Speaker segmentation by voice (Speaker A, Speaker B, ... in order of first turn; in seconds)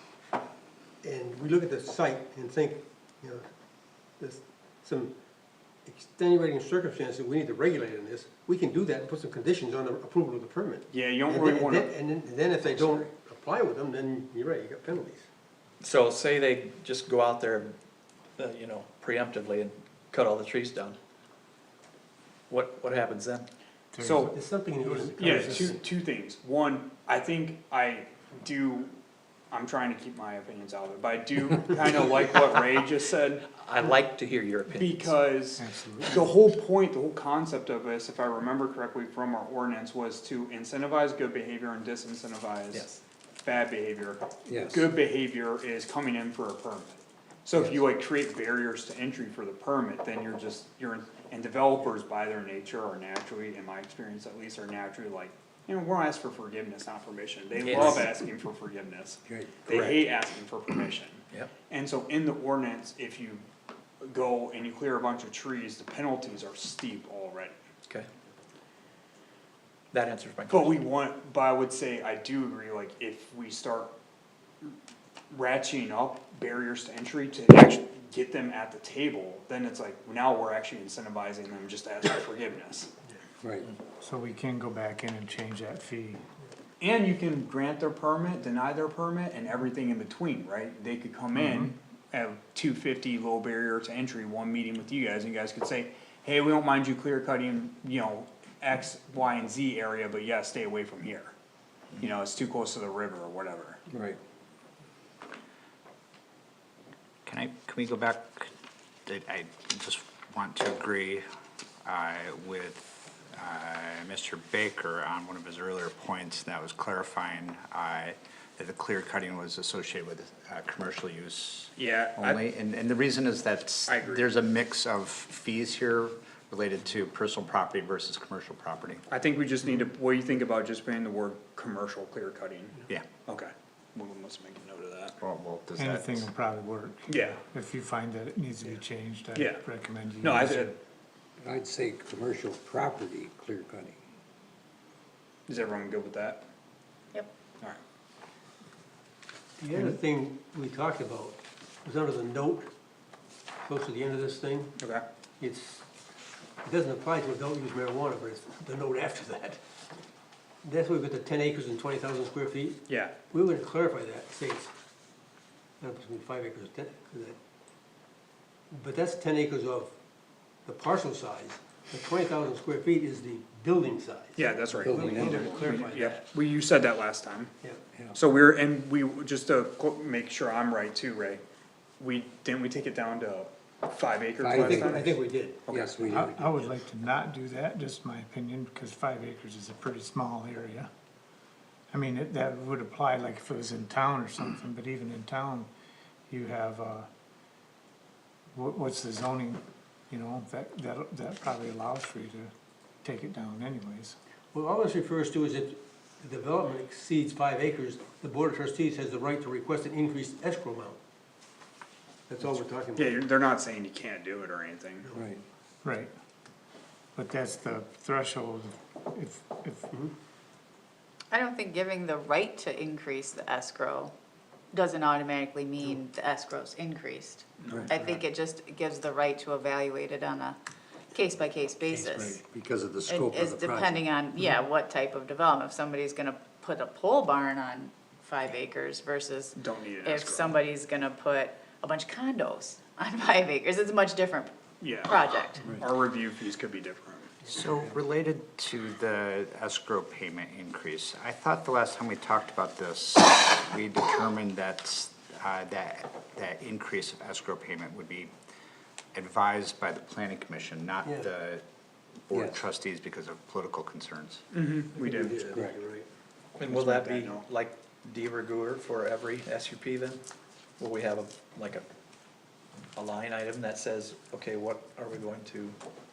Speaker A: 1.0-3.5, 4.2-5.1, 5.9-15.3, 24.3-25.8, 149.6-152.7, 153.6-154.7, 155.4-155.8, 156.6-159.6, 160.6-164.7, 165.8-167.4, 168.7-169.9, 170.7-176.2, 184.5-185.6, 204.5-211.0, 212.3-213.2, 261.0-261.3, 265.0-266.1
Speaker B: 10.9-11.9, 24.0-24.3, 25.2-28.9, 29.5-33.4, 34.7-42.9, 43.4-63.5, 64.0-67.6, 70.5-73.9, 75.3-82.9, 86.8-101.3, 102.0-103.8, 121.8-122.4, 123.9-124.3, 129.1-135.2, 137.1-137.4, 139.3-139.7, 140.2-140.7, 145.5-146.4, 154.8-155.0, 162.9-163.1, 174.4-177.5, 178.2-181.4, 182.0-185.1, 185.7-186.0, 213.0-215.1, 227.6-228.1, 239.6-240.6, 244.8-247.4, 264.5-265.4, 266.6-267.4
Speaker C: 15.8-17.7, 18.4-21.0, 22.5-23.5, 33.5-35.1, 42.7-43.0, 57.6-58.1, 69.9-70.8, 266.6-270.2, 270.8-271.9, 273.0-275.8
Speaker D: 23.9-25.8, 35.6-36.3, 84.0-86.2, 91.4-91.7, 135.8-140.8, 186.1-190.9, 191.9-195.7, 196.3-197.1, 198.6-202.5, 203.0-204.2, 215.8-216.1, 217.2-219.9
Speaker E: 44.5-44.9, 59.3-59.8, 83.4-83.7, 103.9-104.2, 141.4-144.0, 174.8-175.8, 184.4-184.9, 185.7-186.5, 215.2-215.4, 232.4-234.0, 262.3-262.6
Speaker F: 107.3-108.5, 109.1-111.2, 111.8-129.1, 135.2-136.3, 247.4-258.3, 259.1-261.6, 262.3-264.4
Speaker G: 221.3-224.1, 224.7-230.6, 231.1-232.4, 233.1-245.8